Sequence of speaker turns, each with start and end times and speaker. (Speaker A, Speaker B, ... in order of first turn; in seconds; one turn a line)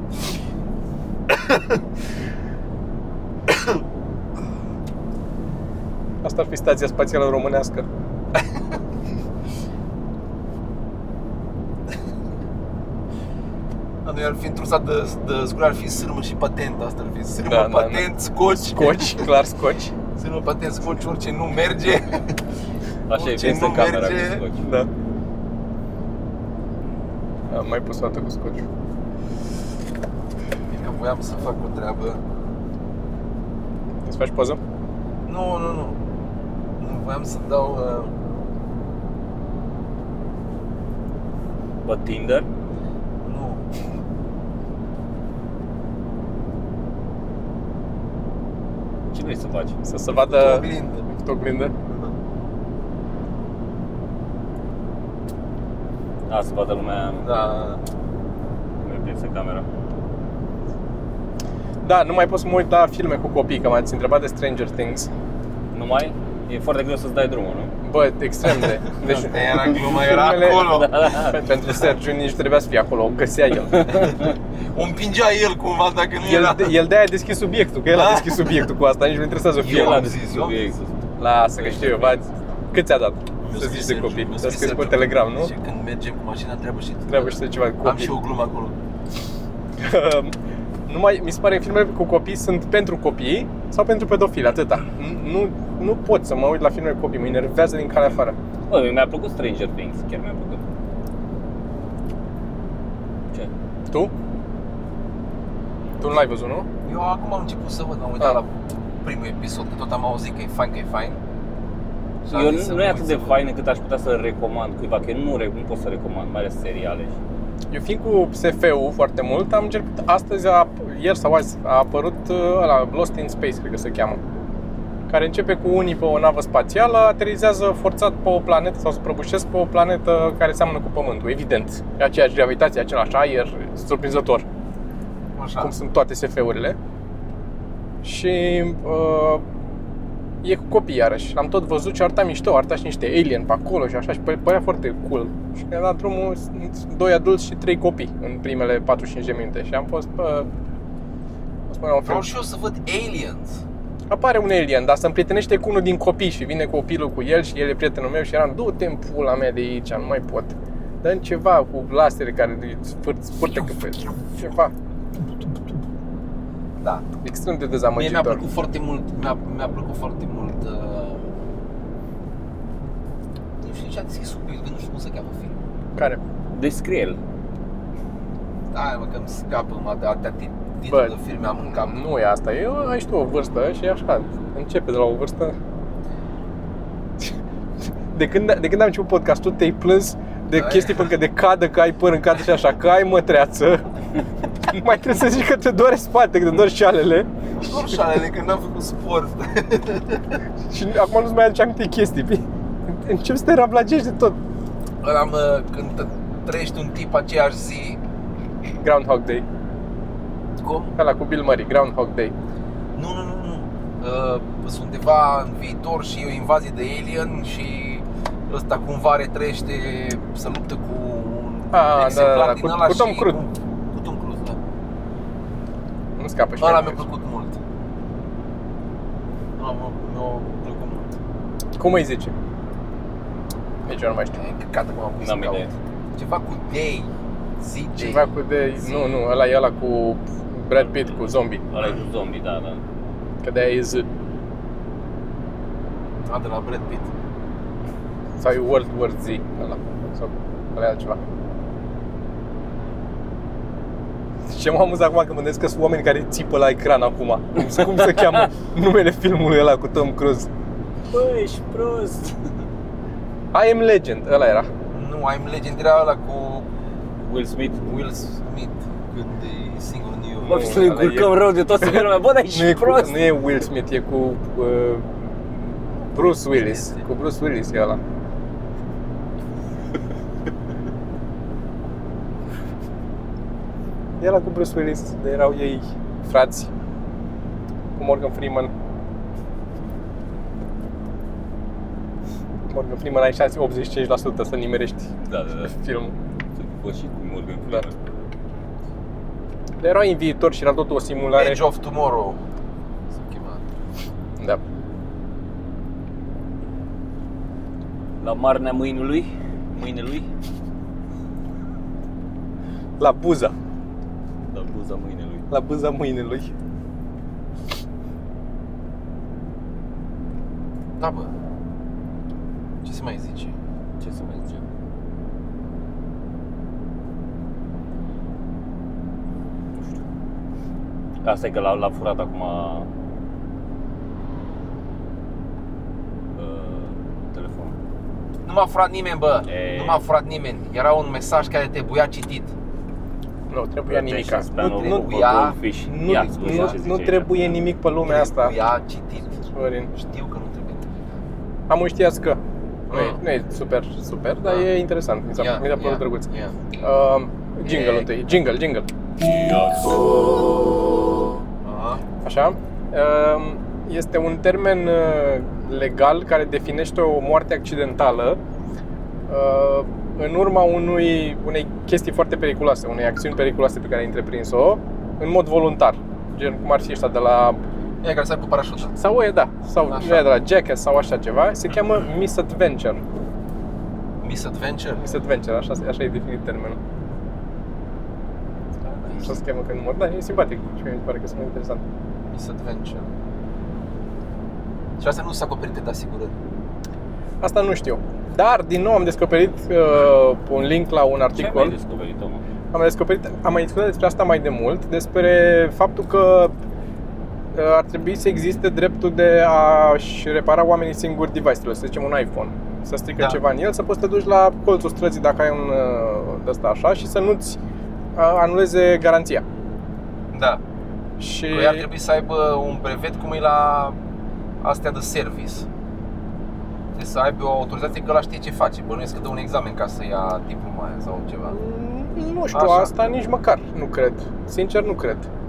Speaker A: 1.3-1.8
Speaker A: 3.5-3.8
Speaker B: 6.2-7.9
Speaker A: 14.0-19.2
Speaker B: 17.4-19.9
Speaker A: 20.1-22.4
Speaker C: 23.1-24.7
Speaker A: 23.1-24.4
Speaker B: 24.6-24.9
Speaker B: 27.5-28.6
Speaker A: 30.7-32.2
Speaker B: 34.0-34.6
Speaker A: 35.2-36.0
Speaker A: 36.8-38.1
Speaker C: 41.9-42.5
Speaker A: 43.2-43.6
Speaker C: 49.1-49.8
Speaker B: 49.8-51.7
Speaker A: 50.1-51.1
Speaker C: 56.3-57.3
Speaker A: 57.2-57.8
Speaker C: 58.8-59.6
Speaker B: 61.8-65.1
Speaker C: 65.7-67.7
Speaker B: 67.8-74.2
Speaker A: 69.1-71.1
Speaker C: 70.6-71.4
Speaker A: 74.0-76.7
Speaker B: 76.2-80.1
Speaker A: 77.9-78.6
Speaker A: 79.6-80.6
Speaker C: 79.6-81.0
Speaker B: 81.2-85.5
Speaker C: 81.6-82.2
Speaker A: 83.4-88.8
Speaker B: 87.1-88.1
Speaker B: 89.8-90.4
Speaker B: 90.9-98.4
Speaker C: 98.7-100.6
Speaker B: 106.0-106.7
Speaker A: 106.8-108.5
Speaker A: 109.0-111.2
Speaker A: 112.2-113.4
Speaker C: 112.3-117.2
Speaker B: 117.7-124.2
Speaker B: 125.1-134.5
Speaker A: 135.3-135.7
Speaker B: 135.6-136.8
Speaker B: 138.0-139.4
Speaker B: 140.4-150.5
Speaker B: 151.7-152.3
Speaker A: 152.0-153.6
Speaker B: 154.1-164.7
Speaker B: 167.2-168.4
Speaker A: 167.9-171.3
Speaker A: 173.6-175.6
Speaker B: 176.0-176.2
Speaker C: 176.5-177.2
Speaker A: 178.7-182.0
Speaker B: 180.9-181.2
Speaker B: 181.7-185.6
Speaker B: 188.1-193.8
Speaker A: 190.5-191.1
Speaker B: 194.7-198.0
Speaker A: 197.6-200.4
Speaker B: 200.7-204.4
Speaker A: 205.0-208.0
Speaker B: 208.8-209.4
Speaker A: 210.6-211.0
Speaker B: 211.0-212.3
Speaker A: 212.9-224.6
Speaker B: 221.7-223.4
Speaker B: 226.2-227.0
Speaker A: 226.6-227.6
Speaker A: 229.6-231.2
Speaker B: 231.8-232.3
Speaker B: 233.8-234.4
Speaker A: 234.3-238.3
Speaker C: 235.2-235.7
Speaker B: 238.0-241.6
Speaker C: 240.8-242.8
Speaker B: 243.4-244.1
Speaker A: 246.2-247.1
Speaker B: 248.4-251.2
Speaker B: 254.5-260.5
Speaker C: 261.1-262.5
Speaker B: 263.5-264.7
Speaker A: 264.9-266.7
Speaker C: 267.2-267.9
Speaker A: 267.8-271.0
Speaker B: 270.4-278.0
Speaker C: 270.5-273.2
Speaker A: 276.4-277.0
Speaker B: 284.2-286.7
Speaker B: 288.0-288.7
Speaker B: 292.7-295.1
Speaker C: 295.2-295.7
Speaker B: 295.6-296.1
Speaker C: 296.6-298.0
Speaker B: 299.8-301.6
Speaker A: 301.4-302.4
Speaker A: 303.1-303.7
Speaker C: 308.2-310.3
Speaker B: 313.0-313.5
Speaker C: 314.5-315.5
Speaker B: 315.5-316.5
Speaker A: 321.0-321.3
Speaker A: 322.8-323.6
Speaker C: 324.0-324.6
Speaker C: 329.7-330.0
Speaker C: 331.2-332.9
Speaker C: 336.4-337.8
Speaker A: 338.4-342.5
Speaker C: 339.5-340.0
Speaker B: 343.5-345.2
Speaker C: 343.9-347.6
Speaker A: 344.6-346.8
Speaker B: 345.9-348.5
Speaker A: 348.0-349.3
Speaker B: 349.5-349.9
Speaker A: 349.9-351.2
Speaker B: 351.7-352.4
Speaker A: 352.9-353.2
Speaker B: 352.9-358.9
Speaker A: 355.4-356.6
Speaker A: 357.6-358.1
Speaker C: 359.2-360.5
Speaker A: 361.6-362.0
Speaker B: 362.2-368.4
Speaker B: 369.3-377.6
Speaker A: 378.0-379.0
Speaker B: 379.0-383.0
Speaker A: 379.9-380.3
Speaker A: 384.2-385.1
Speaker B: 385.0-386.8
Speaker A: 388.9-389.3
Speaker B: 389.1-391.8
Speaker A: 392.3-393.1
Speaker A: 395.0-396.4
Speaker B: 397.4-401.8
Speaker C: 401.3-402.4
Speaker B: 402.7-406.5
Speaker B: 407.5-417.6
Speaker A: 413.1-413.4
Speaker B: 418.1-419.4
Speaker A: 420.3-420.6
Speaker B: 421.2-421.9
Speaker A: 421.5-424.0
Speaker A: 424.6-425.7
Speaker A: 426.9-431.6
Speaker B: 431.5-435.3
Speaker A: 432.5-432.9